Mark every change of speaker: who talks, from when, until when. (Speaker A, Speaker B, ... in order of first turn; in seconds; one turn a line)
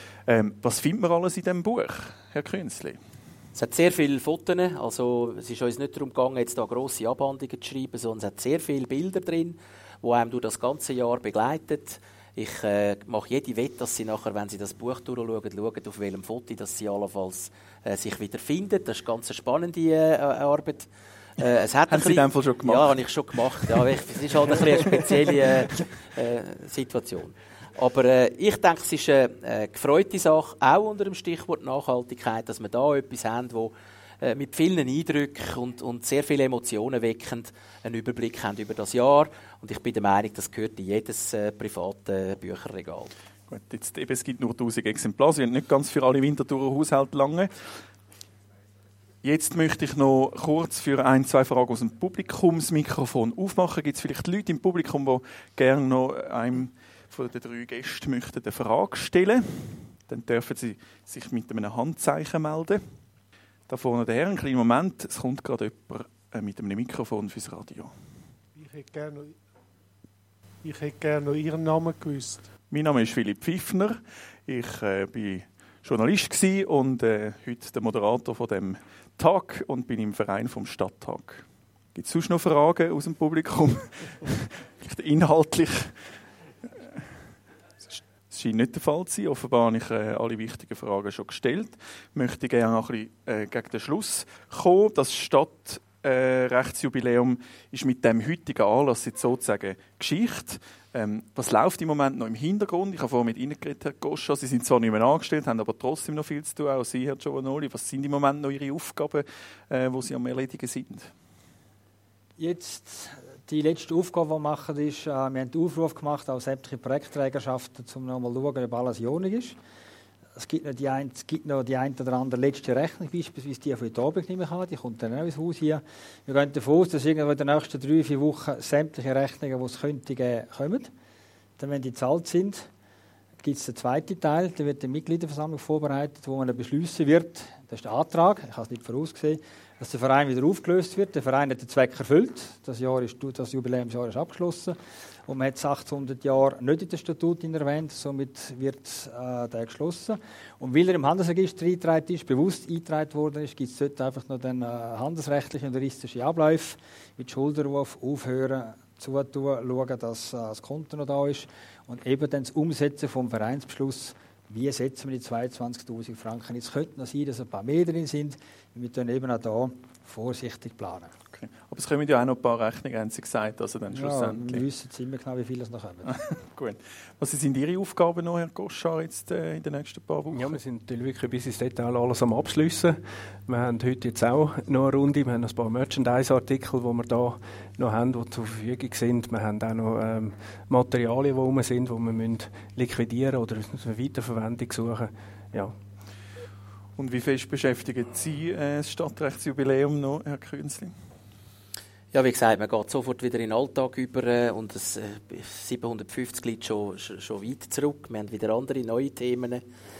Speaker A: 0.3-3.0
Speaker B: 3.5-43.1
Speaker A: 21.9-23.0
Speaker A: 43.5-47.5
Speaker A: 49.2-62.8
Speaker A: 63.7-67.9
Speaker C: 68.5-69.4
Speaker C: 70.6-72.5
Speaker A: 72.7-86.0
Speaker A: 86.7-87.0
Speaker A: 87.8-111.1
Speaker D: 112.4-119.6
Speaker D: 120.3-130.9
Speaker D: 131.6-132.7
Speaker D: 133.4-171.1
Speaker A: 171.3-174.6
Speaker D: 173.9-176.1
Speaker A: 176.1-180.6
Speaker E: 180.3-195.7
Speaker A: 197.0-200.9
Speaker B: 202.1-209.6